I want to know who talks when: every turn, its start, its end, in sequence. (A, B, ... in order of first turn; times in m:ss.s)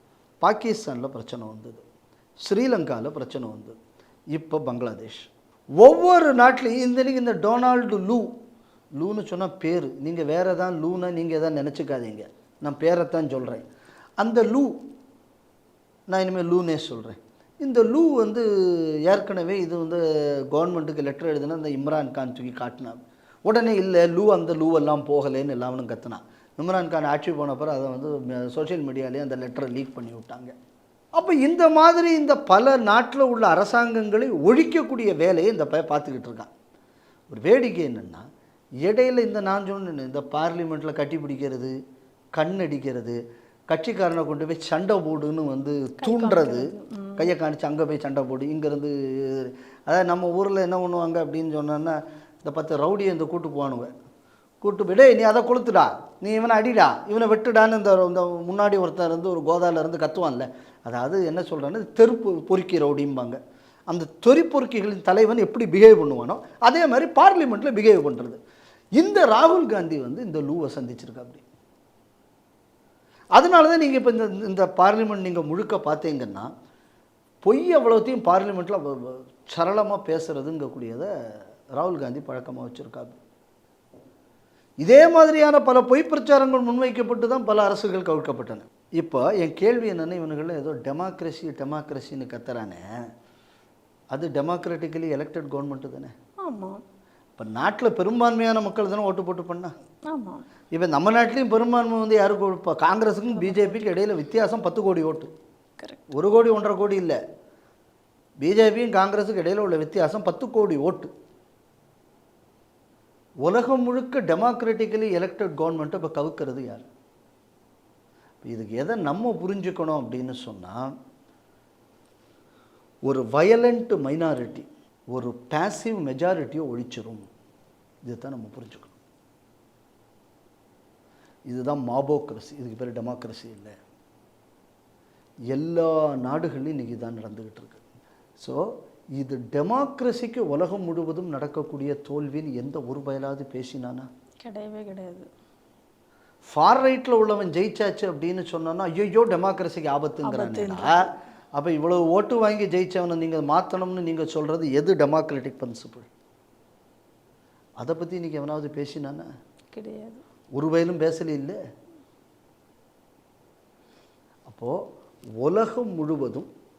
0:00.4-0:01.8 A
0:02.4-0:03.8 A
0:04.3-0:05.3 A
0:05.8-0:08.3 A
0:09.0-0:13.6 A
0:14.2-0:14.7 A
0:16.1-0:30.5 A
0:31.1-0:36.5 A
0:37.3-0:38.2 A
0:38.8-0:41.7 A
0:42.4-0:53.9 A
0:46.0-0:47.3 B
0:54.6-1:08.4 A
1:09.0-1:11.4 A
1:13.4-1:16.5 A
1:17.4-1:21.1 A
1:21.8-1:23.2 A
1:24.8-1:32.8 A
1:34.1-1:36.1 A
1:36.4-1:36.8 B
1:37.4-1:39.7 A
1:40.1-1:40.4 B
1:40.7-1:45.3 A
1:43.3-1:44.0 B
1:45.8-1:46.1 B
1:46.1-1:47.2 A
1:48.4-1:51.1 A
1:53.4-1:56.8 A
1:58.4-2:00.9 A
2:03.0-2:07.2 A
2:08.0-2:08.9 A
2:11.5-2:13.8 A
2:15.5-2:17.8 A
2:18.4-2:18.6 A
2:19.2-2:24.1 A
2:24.4-2:25.3 B
2:26.4-2:36.1 A
2:30.2-2:31.1 B
2:37.8-2:39.3 A
2:39.7-2:40.2 B
2:40.6-2:41.6 A
2:44.5-2:44.8 A
2:45.4-2:46.5 A